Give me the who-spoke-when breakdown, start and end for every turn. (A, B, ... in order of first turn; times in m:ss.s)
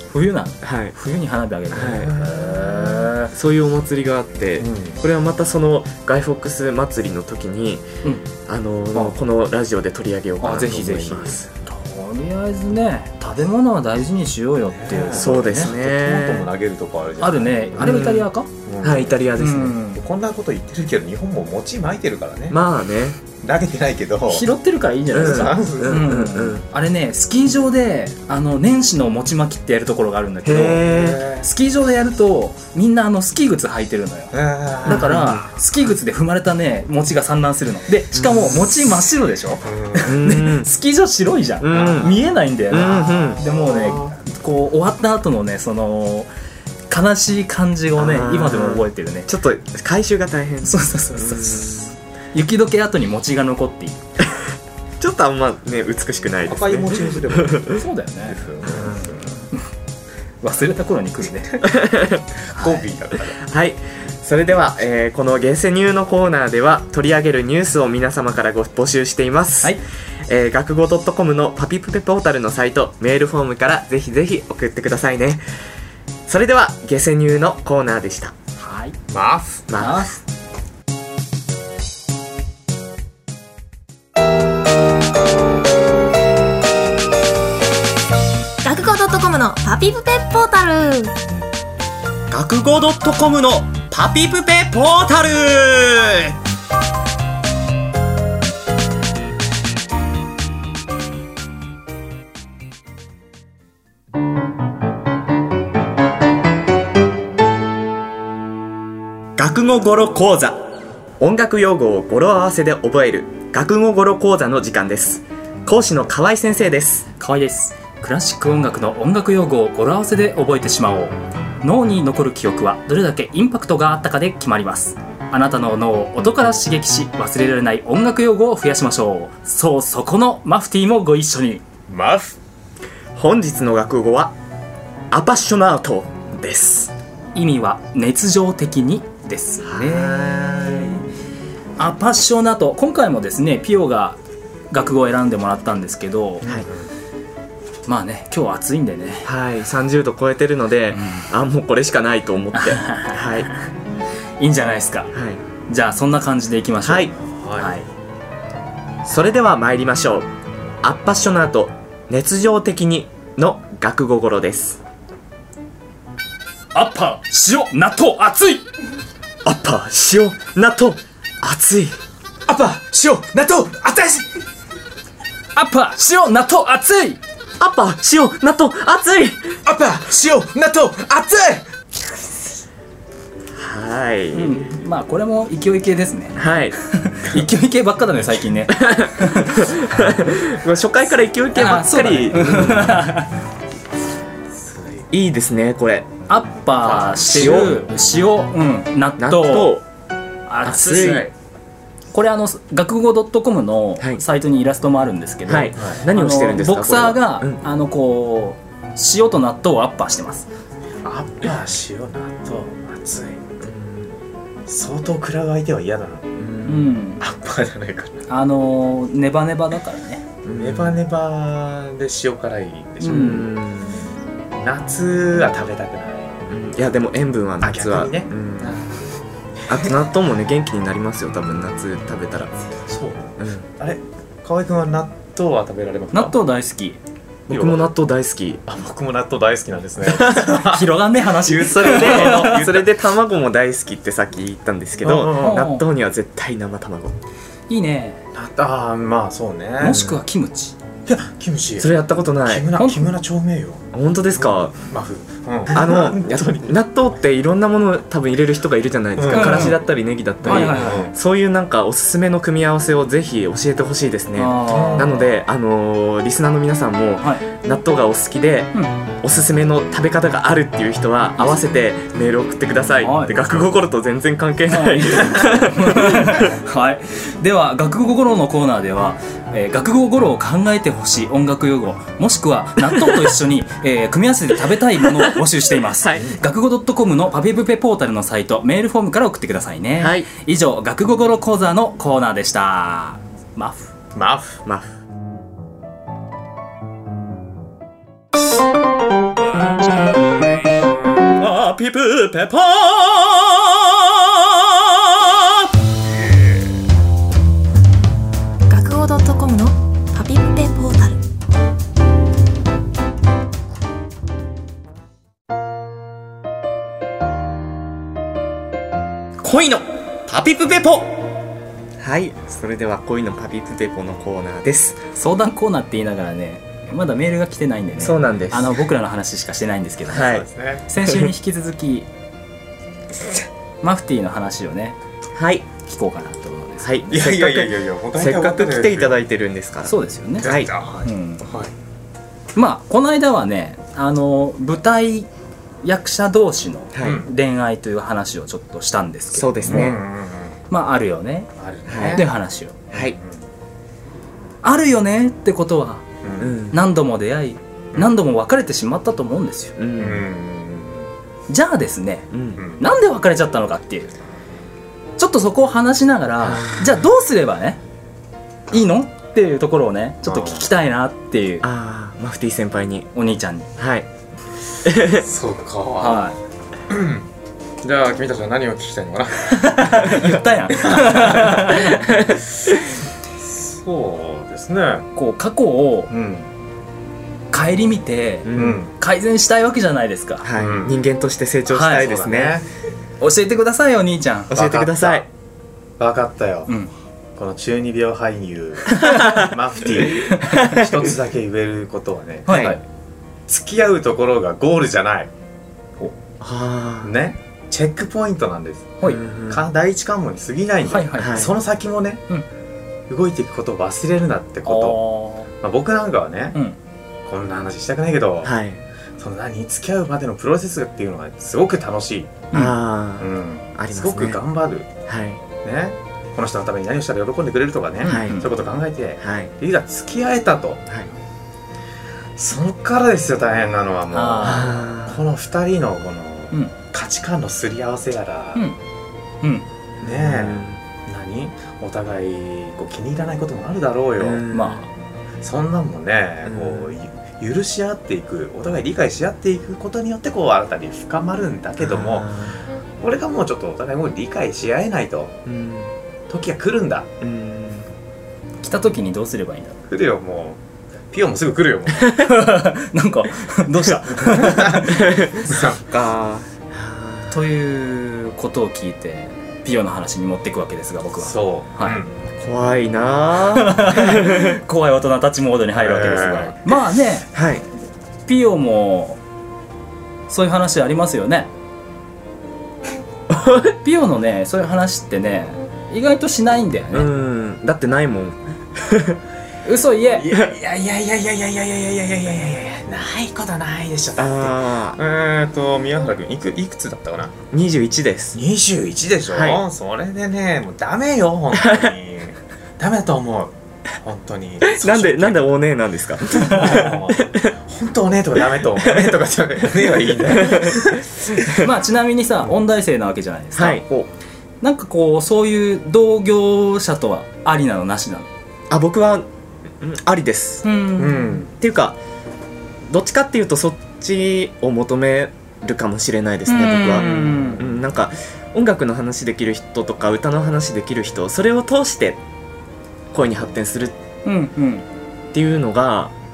0:00.1-0:03.3 A
0:00.6-0:00.9 B
0:01.7-0:02.1 B
0:01.7-0:03.1 C
0:03.3-0:07.8 B
0:04.6-0:05.0 C
0:08.4-0:11.4 B
0:10.4-0:15.7 A
0:14.7-0:18.1 C
0:15.1-0:16.5 B
0:17.2-0:18.5 A
0:17.8-0:18.3 B
0:18.6-0:19.2 C
0:18.8-0:19.8 B
0:19.4-0:20.0 A
0:19.9-0:22.6 C
0:22.5-0:23.2 B
0:23.4-0:24.5 C
0:24.3-0:30.8 A
0:25.1-0:26.1 C
0:25.1-0:26.6 B
0:30.4-0:31.2 B
0:30.8-0:31.4 C
0:31.4-0:34.3 A
0:34.3-0:35.4 C
0:34.8-0:46.3 A
0:34.8-0:35.4 B
0:38.1-0:38.7 B
0:39.6-0:40.2 C
0:40.0-0:40.7 B
0:41.6-0:42.1 B
0:41.7-0:42.3 C
0:42.7-0:43.4 B
0:42.8-0:44.2 C
0:46.9-0:49.3 A
0:48.0-0:51.9 B
0:50.6-0:54.0 A
0:55.0-0:57.8 B
0:56.4-0:59.4 C
0:57.7-0:59.0 A
1:00.4-1:01.6 A
1:01.6-1:02.2 B
1:02.5-1:03.4 C
1:02.5-1:02.8 A
1:03.4-1:15.4 B
1:16.3-1:18.3 B
1:18.6-1:19.0 A
1:19.1-1:19.6 C
1:19.7-1:20.1 B
1:19.8-1:20.2 A
1:28.6-1:31.2 D
1:32.3-1:36.4 B
1:49.4-1:50.6 B
1:51.2-1:57.1 B
1:57.2-2:11.6 A
2:11.9-2:12.4 C
2:13.1-2:14.3 B
2:15.1-2:16.9 B
2:17.3-2:20.8 A
2:19.6-2:21.0 B
2:21.8-2:24.2 A
2:24.7-2:26.4 A
2:26.4-2:26.7 B
2:26.4-2:26.9 C
2:27.9-2:29.3 A
2:29.2-2:33.5 B
2:30.9-2:31.3 A
2:32.5-2:33.7 A
2:34.4-2:35.1 A
2:35.1-2:35.4 B
2:35.7-2:37.9 A
2:36.8-2:37.1 B
2:37.3-2:37.7 C
2:39.0-2:40.3 B
2:40.8-2:44.8 B
2:46.7-2:48.6 A
2:49.4-2:52.0 B
2:52.4-2:54.3 C
2:55.6-2:57.2 A
2:57.6-2:59.6 B
2:59.6-3:01.7 C
3:03.5-3:04.6 B
3:04.3-3:09.7 A
3:06.4-3:06.8 B
3:08.7-3:13.0 B
3:11.5-3:13.3 A
3:14.6-3:15.0 C
3:15.1-3:16.1 B
3:16.3-3:19.8 A
3:16.8-3:17.7 C
3:17.3-3:17.8 B
3:19.2-3:19.8 B
3:20.5-3:21.3 A
3:20.6-3:21.3 B
3:22.1-3:30.5 A
3:25.5-3:27.6 B
3:25.8-3:26.0 C
3:31.0-3:33.5 C
3:33.6-3:34.1 B
3:34.7-3:36.4 C
3:36.4-3:37.0 B
3:36.6-3:37.2 A
3:37.2-3:38.2 C
3:38.3-3:40.2 A
3:40.4-3:43.5 C
3:40.5-3:41.0 B
3:43.0-3:43.5 A
3:43.1-3:44.0 B
3:44.6-3:46.4 C
3:46.5-3:48.8 B
3:47.6-3:48.9 C
3:49.7-3:50.0 C
3:49.7-3:52.5 B
3:52.9-3:56.4 C
3:53.4-3:53.7 B
3:56.1-3:57.0 A
3:57.5-3:58.6 B
3:57.5-3:57.9 C
3:58.7-4:02.9 C
4:00.1-4:00.5 B
4:00.4-4:02.7 A
4:01.5-4:07.2 B
4:05.0-4:05.6 C
4:05.4-4:05.8 A
4:07.7-4:08.2 A
4:08.3-4:10.0 C
4:09.8-4:10.7 A
4:09.9-4:10.2 B
4:11.0-4:16.7 C
4:11.8-4:12.8 B
4:12.8-4:13.1 A
4:13.9-4:14.8 B
4:15.7-4:36.5 B
4:19.2-4:19.8 C
4:19.3-4:19.8 A
4:20.4-4:21.1 C
4:20.4-4:21.1 A
4:24.4-4:25.3 A
4:24.6-4:25.2 C
4:33.0-4:33.5 A
4:34.7-4:53.9 A
4:45.0-4:46.3 B
4:50.0-4:50.3 B
4:54.1-4:54.6 C
5:01.4-5:05.7 B
5:08.7-5:11.2 D
5:19.4-5:21.2 B
5:22.0-5:25.0 B
5:25.1-5:30.3 A
5:28.0-5:28.8 B
5:30.1-5:30.5 B
5:30.1-5:30.8 C
5:30.9-5:32.1 A
5:31.0-5:31.3 B
5:33.8-5:35.0 A
5:35.3-5:35.7 B
5:35.8-5:37.0 A
5:36.8-5:40.7 B
5:37.1-5:39.2 C
5:39.8-5:40.5 A
5:40.4-5:41.7 C
5:41.0-5:41.5 A
5:42.5-5:45.3 A
5:45.8-5:50.0 A
5:46.9-5:47.2 B
5:47.0-5:47.3 C
5:49.3-5:50.0 B
5:49.6-5:50.5 C
5:50.7-5:51.5 A
5:51.6-5:52.3 C
5:51.9-5:52.2 B
5:52.1-5:52.8 A
5:52.9-5:53.4 C
5:54.6-5:56.0 A
5:56.2-5:56.6 C
5:56.4-5:56.8 B
5:56.7-5:59.7 A
5:59.8-6:00.3 B
6:00.0-6:01.1 C
6:01.5-6:04.1 A
6:02.3-6:02.6 B
6:02.6-6:02.8 C
6:05.2-6:07.8 A
6:06.4-6:07.0 B
6:08.7-6:11.6 A
6:10.2-6:10.7 C
6:11.6-6:13.1 B
6:13.1-6:13.7 A
6:13.8-6:14.1 B
6:14.8-6:15.2 B
6:15.1-6:16.3 C
6:16.0-6:16.4 A
6:16.9-6:17.2 C
6:17.8-6:20.0 C
6:19.5-6:22.1 A
6:20.8-6:21.8 C
6:22.0-6:22.4 B
6:23.4-6:25.1 C
6:25.1-6:26.1 A
6:26.1-6:26.5 C
6:27.5-6:30.5 A
6:28.4-6:28.8 B
6:28.6-6:28.9 C
6:30.4-6:32.6 B
6:30.5-6:31.0 C
6:31.7-6:32.0 A
6:31.8-6:32.6 C
6:33.2-6:34.5 A
6:34.5-6:35.3 B
6:34.5-6:35.3 C
6:36.0-6:36.7 C
6:37.4-6:42.6 C
6:38.9-6:39.2 A
6:39.1-6:39.5 B
6:40.1-6:40.5 A
6:40.5-6:40.9 B
6:42.5-6:42.8 A
6:42.5-6:42.8 B
6:43.5-6:45.3 C
6:46.4-6:47.1 B
6:47.0-6:52.2 C
6:49.0-6:49.6 B
6:50.8-6:51.5 A
6:51.2-6:51.5 B
6:53.1-6:55.0 C
6:54.6-6:55.5 A
6:55.6-6:56.6 C
6:57.2-6:58.5 C
6:58.4-6:58.8 B
6:59.2-7:02.6 C
7:02.5-7:04.4 B
7:03.2-7:04.9 C
7:05.1-7:05.4 B
7:05.6-7:10.8 C
7:08.0-7:08.5 A
7:08.0-7:08.4 B
7:09.2-7:09.5 B
7:12.4-7:18.6 C
7:14.1-7:14.8 A
7:14.4-7:15.2 B
7:20.0-7:20.8 B
7:20.0-7:24.4 C
7:24.2-7:24.8 B
7:24.5-7:24.9 A
7:25.4-7:32.4 C
7:26.4-7:26.9 B
7:31.8-7:32.6 B
7:33.0-7:35.4 C
7:35.4-7:35.9 B
7:36.3-7:37.1 C
7:37.2-7:37.9 B
7:38.6-7:39.8 A
7:39.9-7:42.1 C
7:42.0-7:42.3 B
7:42.2-7:45.1 A
7:44.2-7:45.8 C
7:44.8-7:47.3 B
7:47.3-7:52.0 A
7:51.2-7:52.1 C
7:52.4-7:54.6 B
7:53.5-7:57.3 A
7:55.7-7:56.6 C
7:57.3-7:57.6 B
7:58.3-7:59.2 A
8:00.3-8:01.5 A
8:03.3-8:03.7 B
8:03.8-8:07.1 A
8:06.9-8:09.2 B
8:09.6-8:10.3 A
8:10.2-8:17.4 C
8:14.2-8:15.0 B
8:17.5-8:18.4 B
8:18.3-8:25.6 C
8:19.3-8:19.6 B
8:21.6-8:21.9 B
8:24.7-8:27.5 B
8:26.3-8:31.5 C
8:28.8-8:29.1 B
8:30.3-8:31.6 B
8:31.5-8:33.8 A
8:33.5-8:34.1 B
8:34.6-8:38.3 A
8:38.7-8:39.3 B
8:39.8-8:40.6 B
8:40.6-8:41.4 A
8:41.0-8:41.5 C
8:41.6-8:42.0 B
8:42.9-8:52.2 B
8:46.5-8:47.6 A
8:47.0-8:47.6 C
8:53.1-8:54.0 B
8:54.2-8:54.8 A
8:55.3-8:56.1 B